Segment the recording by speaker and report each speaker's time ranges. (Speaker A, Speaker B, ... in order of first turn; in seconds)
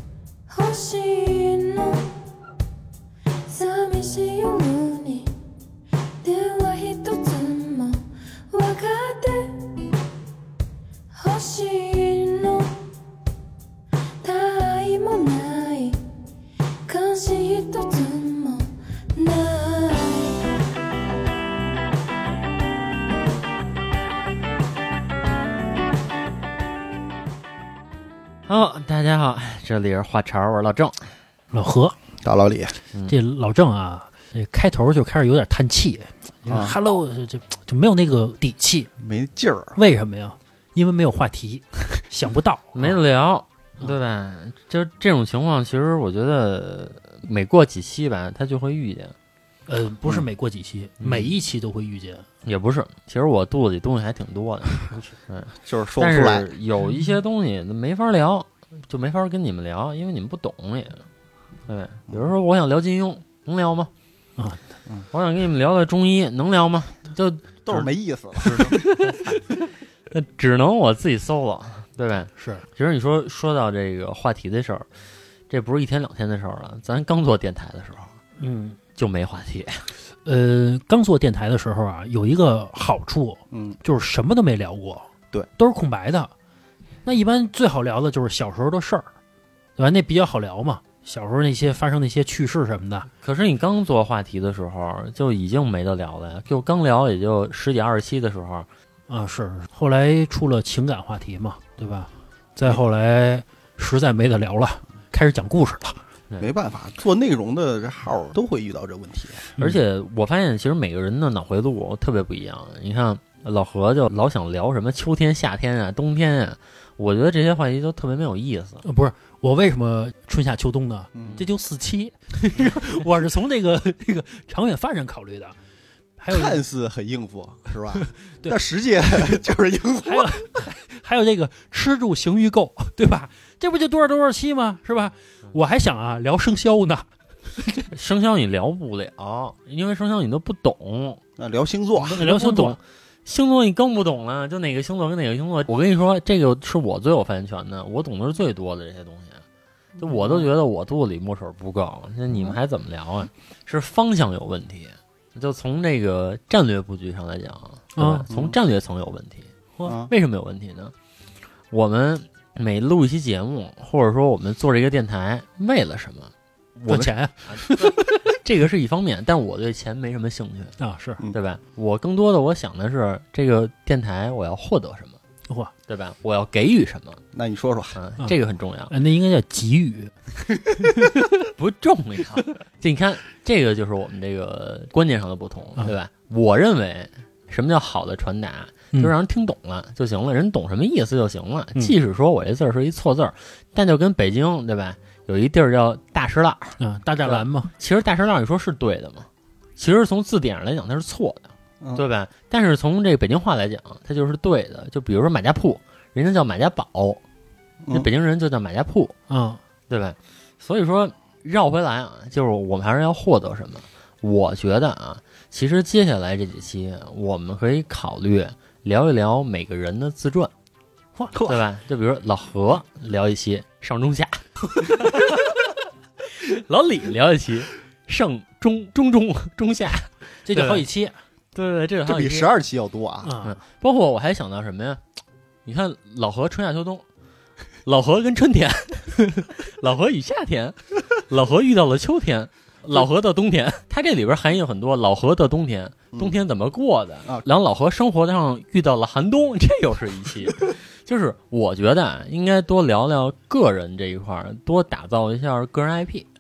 Speaker A: 0.5-2.2, 3.5-5.3, 6.2-9.9, 11.1-12.9, 14.2-16.0, 16.9-20.5
Speaker B: 28.5-31.1, 42.8-49.1, 51.0-51.3, 52.4-61.0, 61.7-63.9, 65.1-67.9, 68.4-69.5, 70.1-74.9, 75.5-78.1, 79.0-79.8, 93.2-98.7, 109.6-118.8, 137.9-141.2, 142.2-149.4, 150.0-159.5, 160.1-160.9, 161.7-166.3, 167.5-170.8, 171.3-175.2, 175.9-177.2, 177.9-178.9, 181.4-207.2, 207.9-209.1, 209.9-220.5, 221.4-225.7, 226.2-230.8, 231.5-232.5, 233.4-235.0, 235.6-237.0, 237.8-256.2
Speaker C: 31.5-31.9, 33.1-38.9, 39.7-43.0, 49.7-52.2, 72.4-72.6, 78.4-78.8, 80.2-86.3, 87.0-89.1, 89.8-93.1, 99.1-106.0, 118.8-125.5, 126.2-126.6, 128.0-128.6, 130.0-137.1, 142.0-142.8, 157.9-158.2, 166.8-167.8, 170.8-171.2, 175.5-175.7, 178.9-180.1, 196.8-197.7, 209.3-209.6, 230.4-231.2, 233.2-233.6
Speaker D: 32.2-32.7, 36.5-36.7, 39.0-39.8, 55.6-56.5, 67.7-68.8, 83.5-83.8, 106.4-109.5, 121.1-121.4, 126.3-130.3, 141.4-142.2, 150.0-150.4, 158.3-158.6, 159.8-160.1, 177.3-178.0, 221.3-221.6, 232.1-233.3